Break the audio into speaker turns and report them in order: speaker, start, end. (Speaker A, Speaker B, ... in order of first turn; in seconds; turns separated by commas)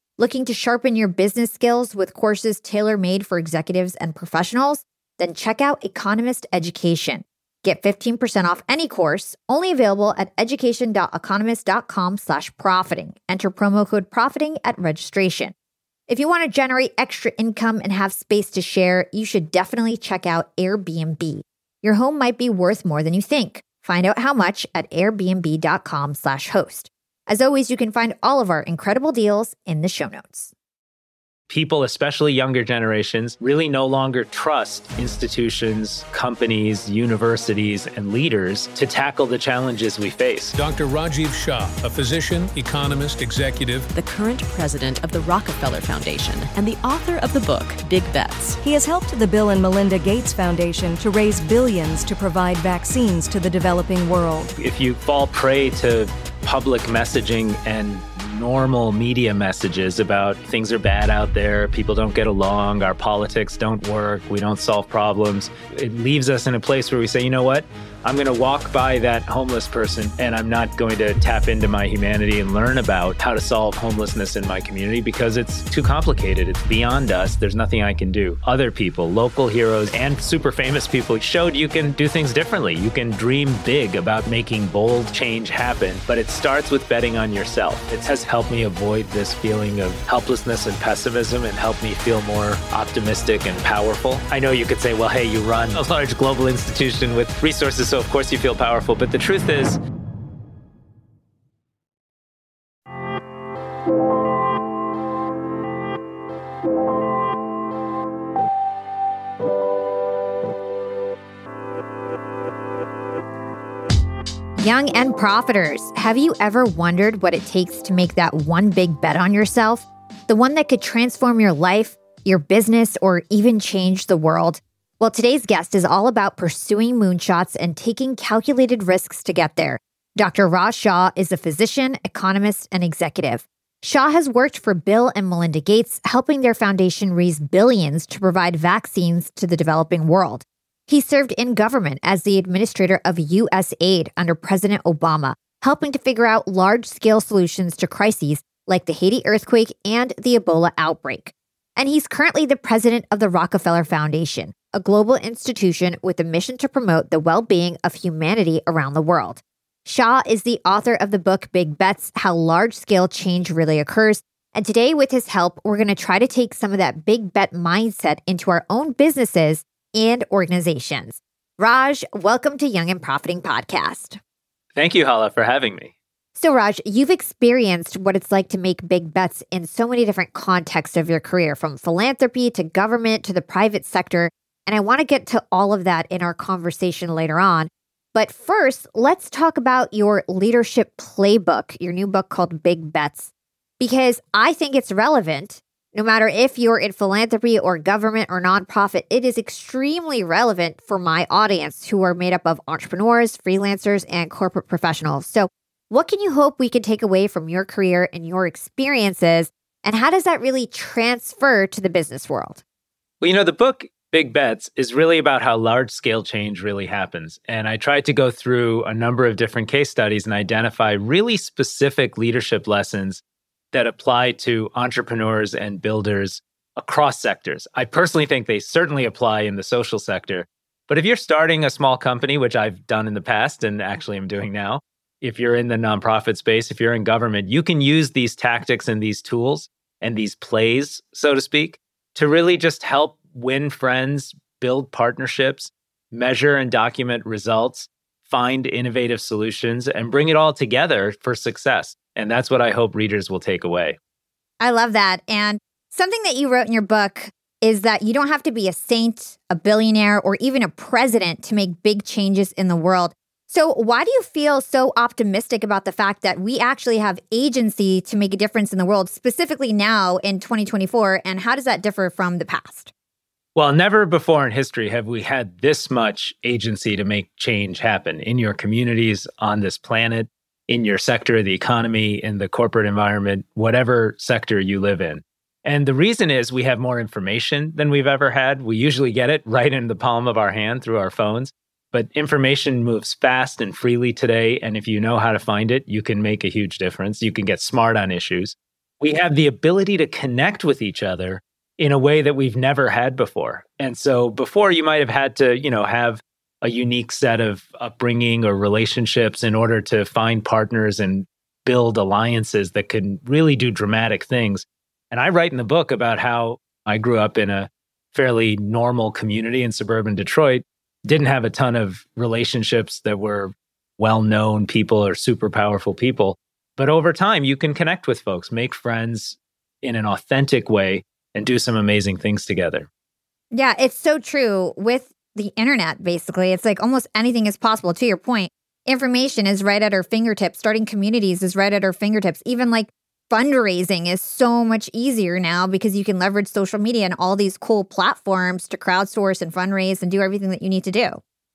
Speaker A: 0.2-15.5, Speaker A: 16.1-30.5, Speaker B: 31.5-40.6, Speaker C: 40.5-43.9, Speaker D: 43.9-48.6, Speaker E: 48.6-54.5, Speaker B: 54.6-99.8, Speaker A: 114.6-174.2, Speaker B: 174.8-175.9, Speaker A: 176.4-212.6, Speaker B: 213.2-223.2, Speaker B: 223.7-254.0, Speaker A: 254.6-272.9, Speaker B: 273.6-332.9, Speaker A: 333.5-351.2